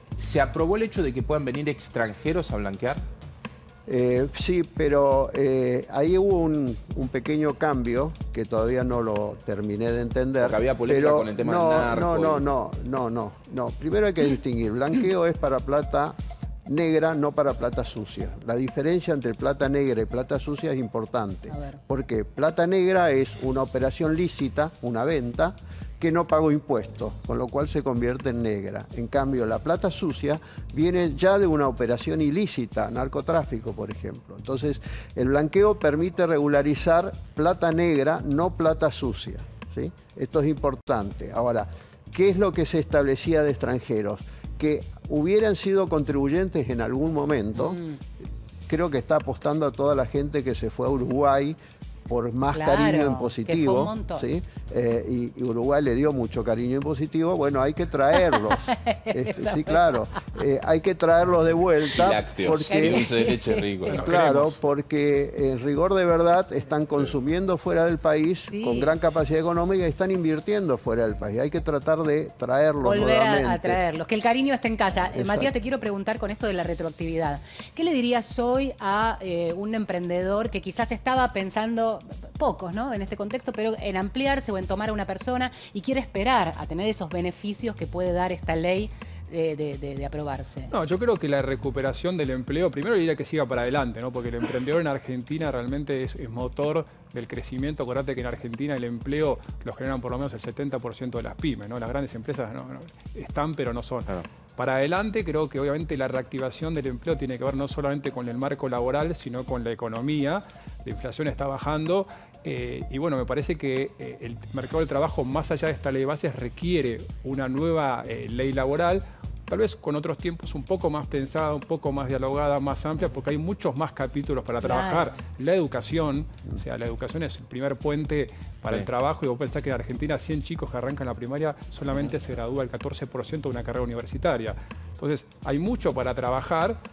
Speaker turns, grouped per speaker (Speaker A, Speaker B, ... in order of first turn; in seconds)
Speaker A: 0.2-3.0, 10.4-12.5, 61.9-64.5
Speaker B: 3.9-16.1, 16.6-47.8, 48.7-51.6, 52.1-63.1, 63.9-73.8, 75.1-75.5
Speaker C: 21.5-21.8, 47.5-48.0, 52.5-54.3, 58.2-60.0, 62.7-64.0, 68.5-68.9, 72.8-90.7, 124.6-125.1
Speaker D: 90.7-136.8